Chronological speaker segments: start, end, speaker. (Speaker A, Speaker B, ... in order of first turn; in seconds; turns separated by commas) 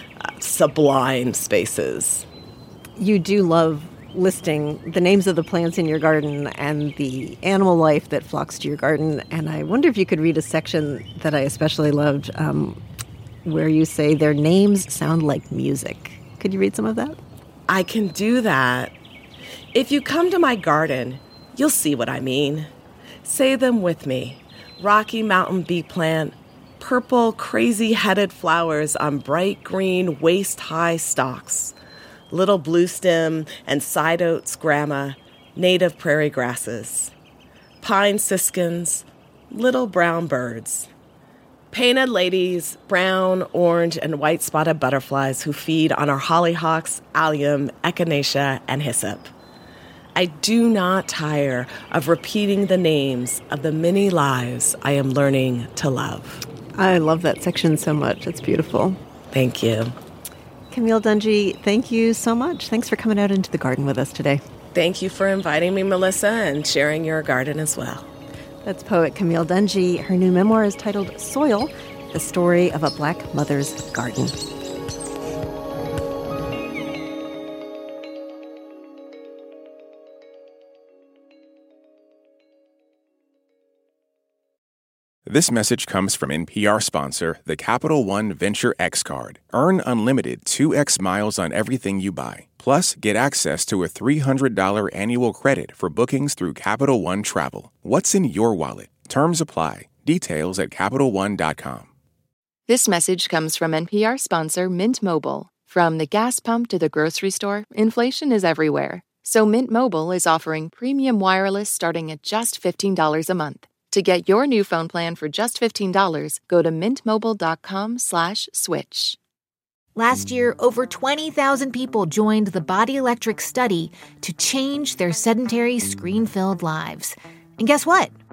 Speaker A: 0.4-2.3, Speaker B: 3.0-12.8, Speaker B: 13.4-17.2, Speaker A: 17.7-18.9, Speaker A: 19.7-22.7, Speaker A: 23.2-31.7, Speaker A: 32.3-37.1, Speaker A: 37.8-40.9, Speaker A: 41.7-49.3, Speaker A: 50.1-56.4, Speaker B: 56.8-59.0, Speaker A: 59.3-59.9, Speaker B: 60.7-64.4, Speaker A: 64.7-68.1, Speaker B: 68.6-74.3, Speaker C: 85.3-101.9, Speaker D: 102.7-119.2, Speaker E: 120.0-128.1